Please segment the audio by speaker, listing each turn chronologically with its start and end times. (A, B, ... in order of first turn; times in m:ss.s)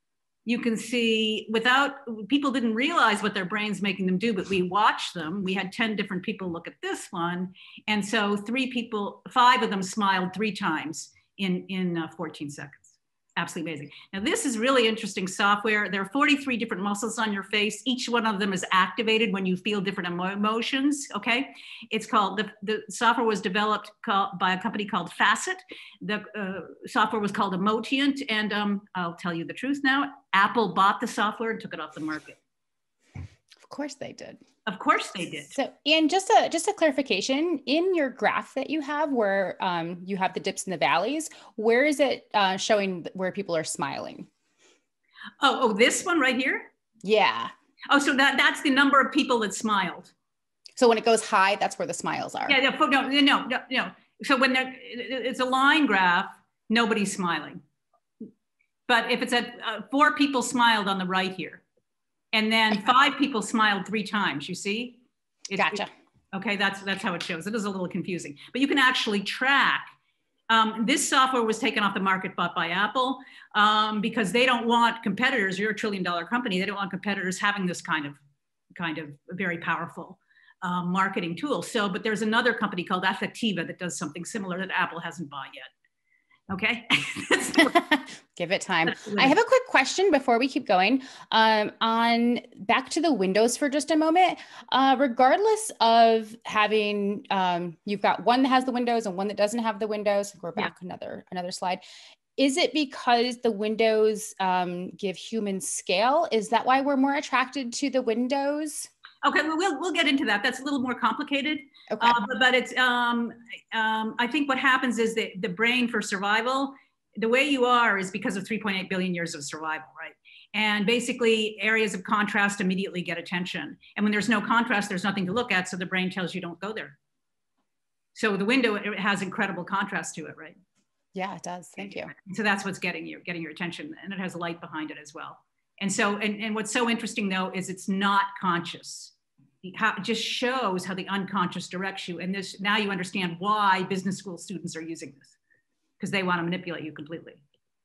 0:00.5-0:32.4 A
0:33.6-0:34.4 B
0:34.7-0:35.5 A
0:35.5-0:44.3 B
0:45.4-0:46.7 A
0:47.0-0:47.5 B
0:47.9-0:50.1 A
0:50.8-0:52.6 B
0:52.5-0:57.6 A
0:58.9-1:01.6 A
1:02.3-1:09.9 A
1:05.6-1:05.9 B
1:10.5-1:18.2 A
1:18.8-1:25.7 A
1:26.5-1:27.8 A
1:27.6-1:41.8 B
1:28.9-1:29.4 A
1:42.4-1:48.9 B
1:49.2-2:07.0 A
1:51.9-1:52.2 B
2:08.2-2:10.6 A
2:11.2-2:12.1 B
2:12.1-2:25.4 A
2:26.0-2:27.4 A